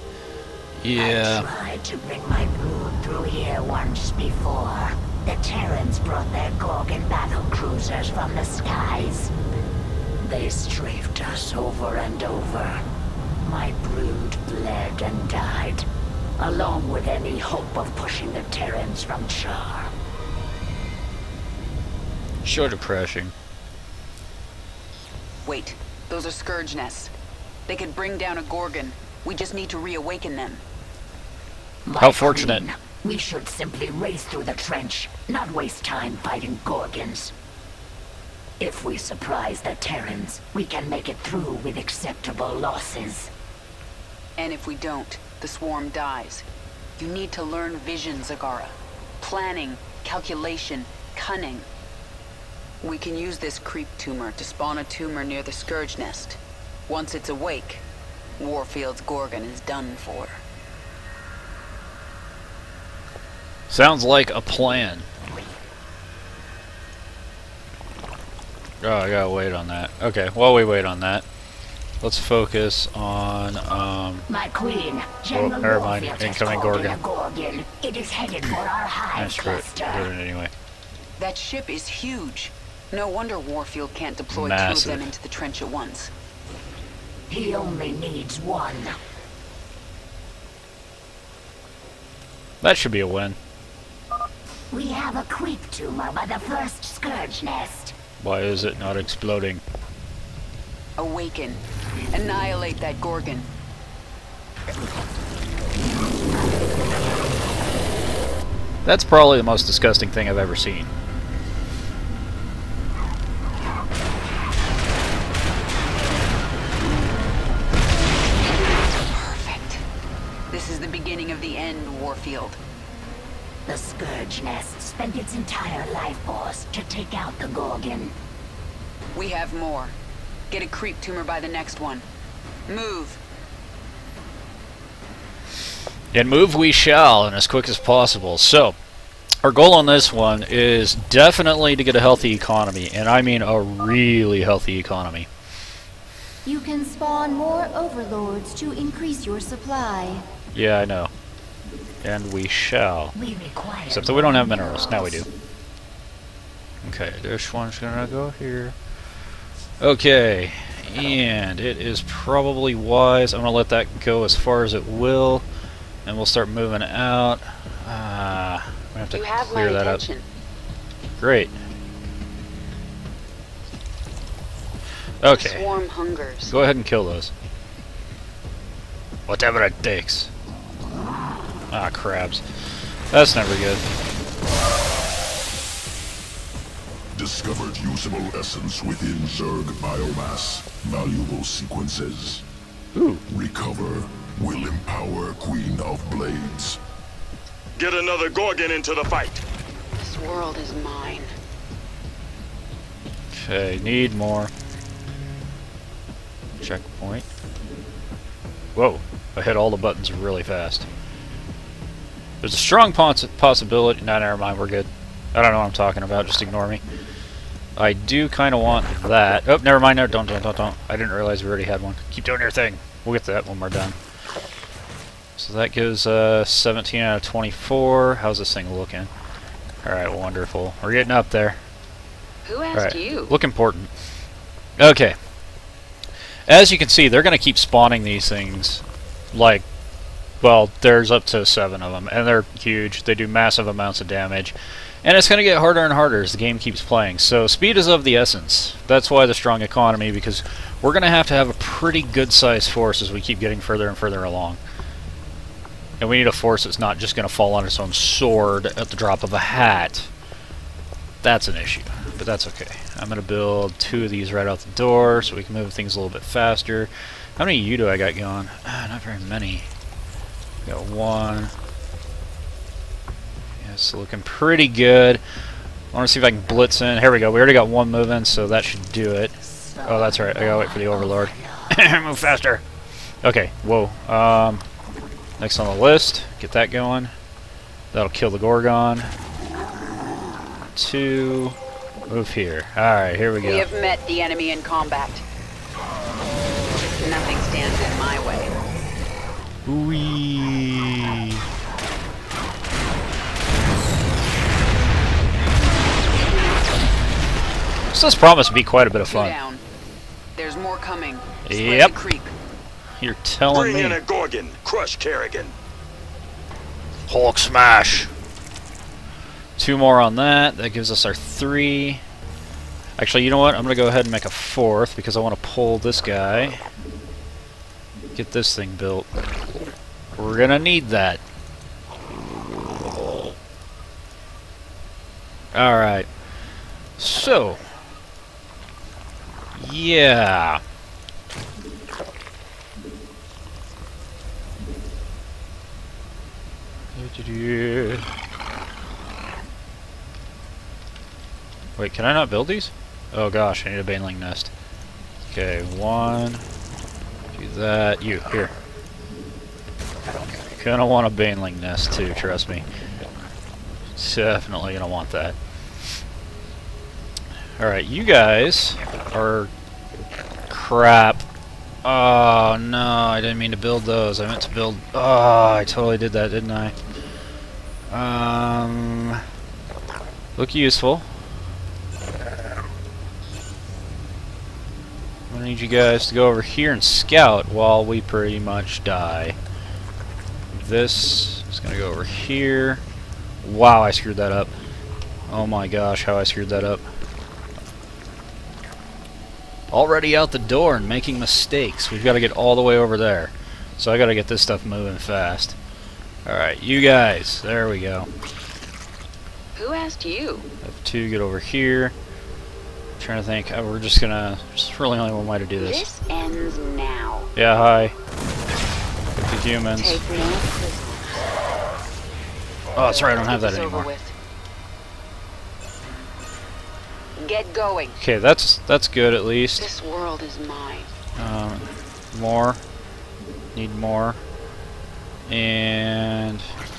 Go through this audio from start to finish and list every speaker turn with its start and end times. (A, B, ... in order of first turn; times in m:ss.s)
0:00.8-0:01.5 A
0:01.0-0:09.3 B
0:10.2-0:12.9 B
0:13.4-0:15.9 B
0:16.4-0:19.9 B
0:22.4-0:23.3 A
0:25.4-0:27.1 C
0:27.7-0:30.6 C
0:31.8-0:37.3 B
0:32.0-0:32.6 A
0:38.6-0:43.3 B
0:44.4-0:46.4 C
0:47.0-0:51.7 C
0:52.8-0:57.8 C
0:58.4-1:00.4 C
1:03.7-1:05.1 A
1:08.8-1:11.2 A
1:12.0-1:14.3 A
1:14.3-1:20.1 B
1:15.3-1:17.0 A
1:19.2-1:20.5 A
1:21.2-1:26.1 C
1:24.3-1:25.1 A
1:27.3-1:29.0 B
1:32.6-1:33.4 A
1:34.7-1:38.0 B
1:38.2-1:39.6 A
1:41.0-1:43.5 C
1:45.8-1:46.9 B
1:48.8-1:50.9 A
1:58.9-1:59.8 C
2:00.5-2:02.6 C
2:03.7-2:08.2 B
2:09.1-2:10.0 C
2:10.5-2:12.0 C
2:12.7-2:13.2 C
2:16.1-2:18.8 A
2:19.4-2:25.3 A
2:26.4-2:30.2 D
2:30.5-2:31.1 A
2:32.0-2:33.2 A
2:33.2-2:35.3 B
2:33.9-2:35.3 A
2:36.8-2:38.8 A
2:39.8-2:45.4 A
2:46.0-2:50.0 A
2:49.1-2:50.2 C
2:51.2-2:51.5 A
2:55.2-2:55.6 A
2:55.3-2:56.6 C
2:56.5-2:57.3 A
2:59.3-3:00.3 A
3:01.7-3:02.4 A
3:03.1-3:03.8 A
3:07.2-3:12.4 E
3:13.0-3:13.2 A
3:13.3-3:16.8 E
3:17.8-3:19.4 F
3:20.0-3:21.3 C
3:23.3-3:24.5 A
3:26.6-3:27.3 A
3:28.8-3:30.9 A
3:32.4-3:36.8 A
3:37.8-3:44.0 A
3:45.4-3:49.1 A
3:49.8-3:51.6 A
3:52.4-3:53.3 C
3:52.8-3:53.9 A
3:54.8-3:55.2 A
3:56.5-3:59.6 A
4:00.4-4:14.6 A
4:16.0-4:20.1 A
4:21.2-4:29.7 A
4:30.6-4:31.5 A
4:33.6-4:35.2 A
4:35.9-4:42.6 A
4:39.4-4:41.8 B
4:43.2-4:44.6 A
4:45.4-4:47.1 A
4:47.9-4:49.1 A
4:50.8-4:51.6 A
4:52.1-4:53.7 A
4:53.4-4:55.2 C
4:57.0-4:58.6 C
4:59.7-5:01.4 A
5:07.9-5:09.4 A
5:09.0-5:09.6 C
5:10.4-5:12.4 C
5:11.5-5:12.0 A
5:13.0-5:14.0 A
5:13.5-5:15.5 F
5:17.1-5:18.1 A
5:19.6-5:22.0 A
5:23.0-5:26.6 A
5:28.1-5:29.1 A
5:30.2-5:31.2 A
5:35.5-5:36.1 A
5:37.0-5:37.6 A
5:39.6-5:40.6 A
5:47.0-5:48.1 A
5:51.8-5:54.5 A
5:55.3-5:56.4 A
5:57.4-5:58.5 A
6:00.6-6:02.6 A
6:04.0-6:05.4 A
6:07.6-6:09.5 A
6:10.5-6:11.2 A
6:11.8-6:16.8 A
6:17.9-6:19.2 A
6:20.4-6:21.0 A
6:25.3-6:29.4 A
6:30.5-6:32.8 A
6:33.4-6:34.5 A
6:35.3-6:36.8 A
6:39.7-6:45.6 A
6:46.2-6:48.1 A
6:49.6-6:50.5 C
6:50.6-6:51.9 A
6:53.0-6:55.8 A
6:55.6-6:57.3 C
6:57.4-6:58.0 A
6:59.2-7:00.0 A
6:59.8-7:01.3 C
7:02.8-7:03.9 A
7:02.8-7:04.1 C
7:07.2-7:08.0 C
7:08.0-7:09.7 A
7:09.6-7:10.9 C
7:11.2-7:12.6 A
7:13.5-7:14.2 A
7:15.3-7:16.5 A